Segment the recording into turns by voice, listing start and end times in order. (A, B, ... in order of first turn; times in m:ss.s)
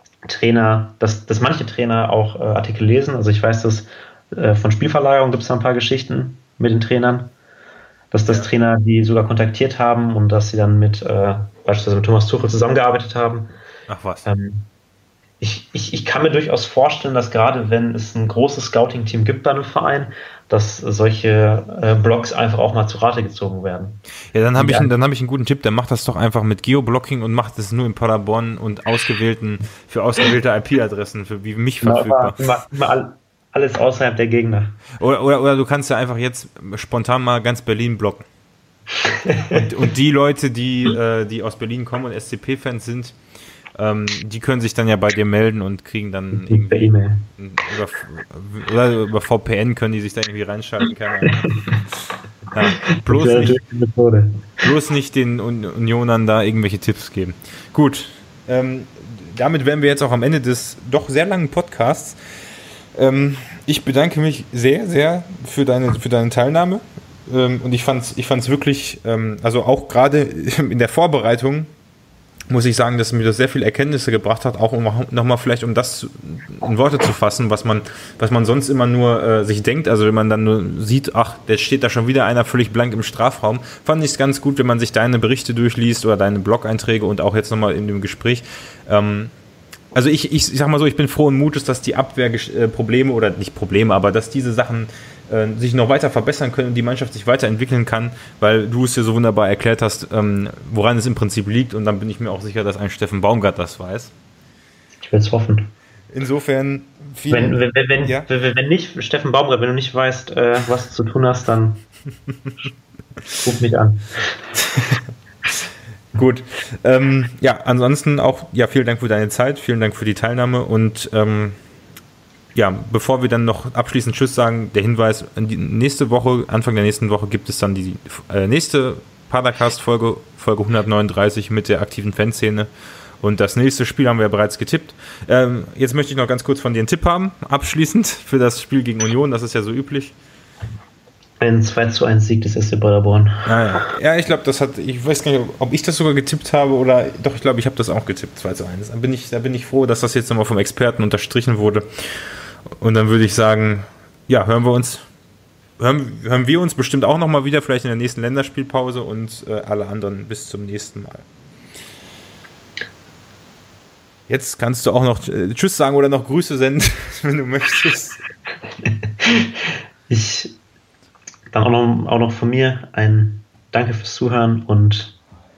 0:00.2-0:07.3 A
0:08.1-0:13.5 A
0:13.9-0:14.3 B
0:14.2-0:14.7 A
0:15.4-0:24.0 A
0:24.3-0:32.4 B
0:24.6-0:24.9 A
0:31.8-0:34.8 A
0:35.0-0:38.3 B
0:39.1-0:39.7 A
0:39.6-0:43.2 B
0:43.8-0:51.7 B
0:46.3-0:47.3 A
0:51.3-0:51.8 A
0:52.5-0:53.6 B
0:52.8-0:54.7 A
0:54.6-1:02.2 B
1:03.0-1:11.7 B
1:12.5-1:29.3 B
1:29.9-1:44.1 B
1:45.0-1:45.7 A
1:46.1-1:48.3 B
1:47.3-1:51.8 A
1:53.4-1:54.1 A
1:54.7-1:55.0 B
1:56.2-2:01.6 B
2:02.6-2:12.7 B
2:13.2-2:20.2 B
2:21.4-2:23.5 A
2:23.5-2:35.1 B
2:35.8-2:41.3 B
2:44.3-2:48.2 B
2:49.2-2:49.5 A
2:50.1-2:50.6 A
2:51.5-2:55.2 A